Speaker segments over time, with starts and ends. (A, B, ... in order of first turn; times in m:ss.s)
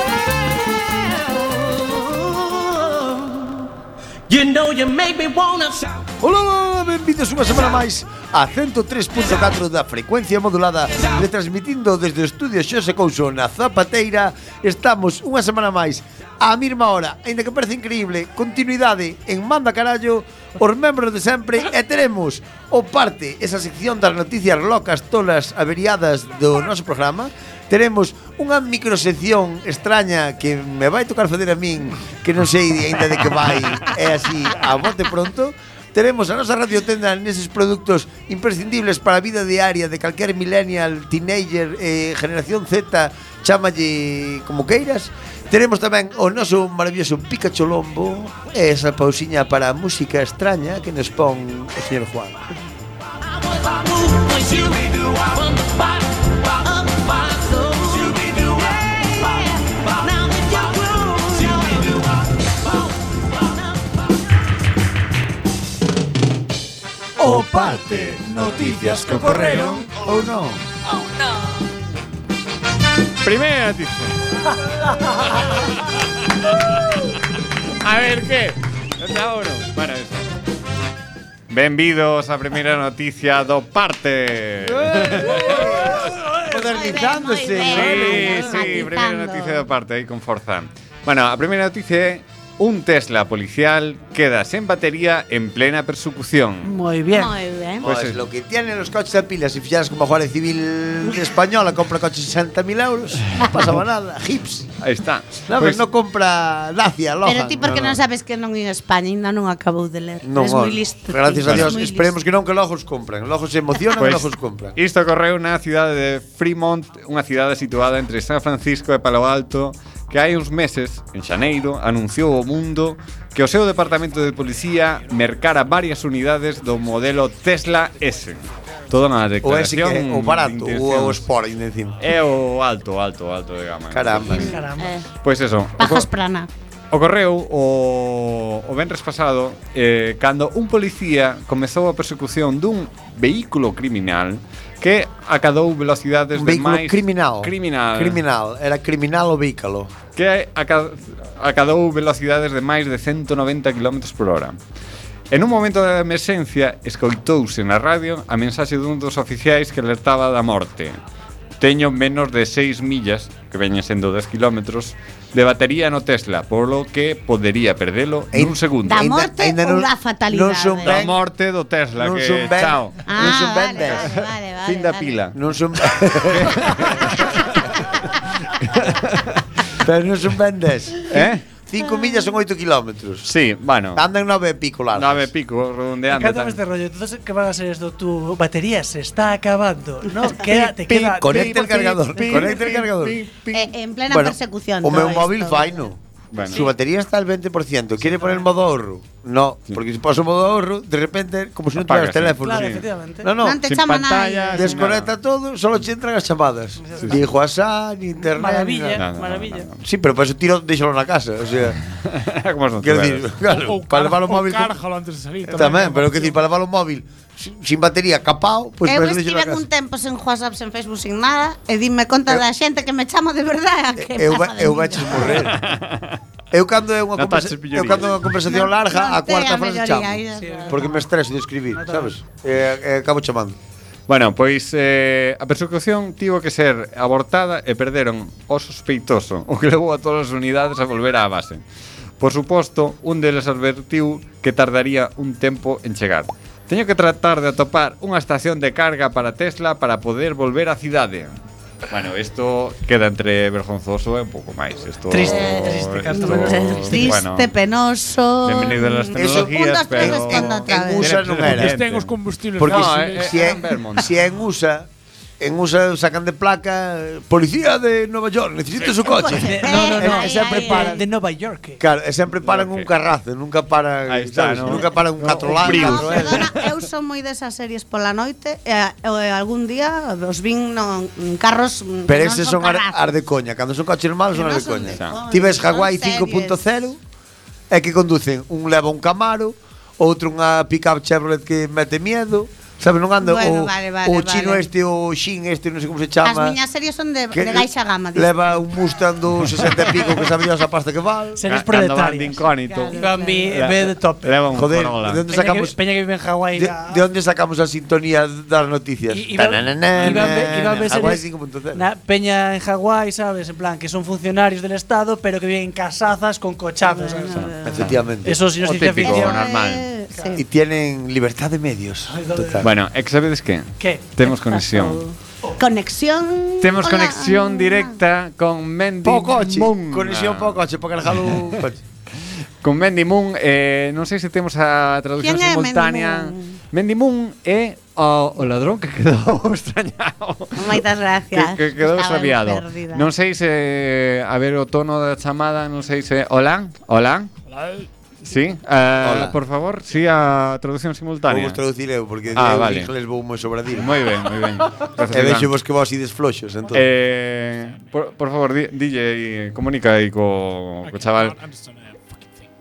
0:04.3-0:05.8 A
0:06.2-0:52.5 B
0:54.0-0:55.7 A
0:57.6-0:58.1 C
0:58.2-0:58.5 A
1:07.2-1:10.6 B
1:07.3-1:09.9 D
1:09.2-1:09.6 E
1:13.2-1:14.2 E
1:15.2-1:15.7 E
1:17.8-1:20.2 E
1:21.5-1:26.0 E
1:24.6-1:28.8 B
1:26.5-1:29.7 C
1:27.6-1:36.7 E
1:36.6-1:37.3 F
1:37.1-1:37.8 C
1:37.8-1:38.2 E
1:37.8-1:44.7 B
1:44.8-1:45.8 E
1:45.5-1:48.0 B
1:47.2-1:52.2 C
1:50.2-1:54.8 B
1:51.5-1:51.8 E
1:54.0-2:08.4 E
2:08.9-2:11.3 E
2:09.4-2:12.0 B
2:12.0-2:14.5 E
2:13.9-2:14.6 B
2:14.3-2:15.0 F
2:14.4-2:15.1 C
2:15.2-2:16.1 E
2:15.8-2:16.5 C
2:16.9-2:28.2 E
2:26.3-2:30.0 B
2:30.2-2:34.6 E
2:35.3-2:41.0 E
2:41.6-2:49.1 E
2:48.3-2:51.2 B
2:48.8-2:51.1 C
2:50.8-2:55.3 E
2:52.0-2:54.1 B
2:53.1-2:55.3 C
2:55.3-2:57.2 B
2:56.3-2:57.6 E
2:58.6-2:59.4 E
2:59.8-3:03.3 B
3:01.1-3:01.4 E
3:03.2-3:04.0 E
3:04.0-3:05.3 B
3:04.9-3:06.6 E
3:06.1-3:12.2 F
3:10.4-3:23.7 B
3:12.2-3:13.4 E
3:12.2-3:12.7 C
3:13.5-3:15.7 C
3:16.3-3:16.7 E
3:18.0-3:18.4 F
3:21.8-3:22.8 E
3:22.4-3:23.3 F
3:23.4-3:24.8 C
3:23.7-3:25.1 E
3:24.5-3:29.0 B
3:26.8-3:27.1 F
3:28.4-3:29.7 F
3:29.0-3:29.8 E
3:29.8-3:31.8 B
3:32.1-3:33.3 E
3:32.8-3:34.8 B
3:33.5-3:36.4 D
3:35.5-3:39.6 B
3:38.8-3:45.5 C
3:44.0-3:45.6 B
3:45.3-3:46.2 E
3:46.5-3:53.6 B
3:47.2-3:48.2 E
3:48.4-3:50.9 C
3:50.3-3:51.1 F
3:51.7-3:52.1 F
3:54.1-4:01.6 E
4:02.2-4:11.3 E
4:11.9-4:17.5 E
4:15.1-4:17.2 F
4:15.2-4:21.1 C
4:18.4-4:24.1 E
4:19.1-4:21.8 B
4:21.3-4:23.5 D
4:22.6-4:24.9 B
4:25.4-4:31.0 B
4:28.8-4:31.0 C
4:29.3-4:31.8 F
4:31.8-4:36.5 B
4:32.5-4:32.9 E
4:34.1-4:36.6 E
4:35.4-4:43.1 C
4:42.1-4:47.0 B
4:44.3-4:46.6 C
4:45.0-4:45.2 E
4:47.7-4:56.6 B
4:53.2-4:54.7 C
4:56.2-4:58.5 C
4:57.3-5:01.4 B
5:01.4-5:02.4 F
5:01.4-5:05.2 E
5:02.4-5:03.6 C
5:03.0-5:04.3 F
5:04.5-5:05.8 B
5:05.3-5:07.0 F
5:06.6-5:11.8 B
5:09.1-5:17.5 F
5:10.0-5:10.4 E
5:16.8-5:17.8 C
5:17.3-5:18.0 E
5:17.6-5:18.4 B
5:18.2-5:19.4 F
5:18.6-5:19.9 E
5:19.0-5:20.4 C
5:20.4-5:22.7 B
5:22.1-5:22.7 F
5:22.6-5:25.0 E
5:23.8-5:24.1 F
5:24.2-5:28.0 C
5:26.6-5:30.6 E
5:29.0-5:31.8 B
5:32.6-5:47.3 E
5:35.2-5:36.6 C
5:40.6-5:43.1 C
5:47.5-5:47.9 D
5:48.2-5:51.6 E
5:49.0-5:49.4 B
5:51.3-5:54.0 B
5:52.3-5:52.9 E
5:53.7-5:55.5 E
5:55.1-5:56.9 B
5:56.7-6:01.4 E
6:00.8-6:02.5 D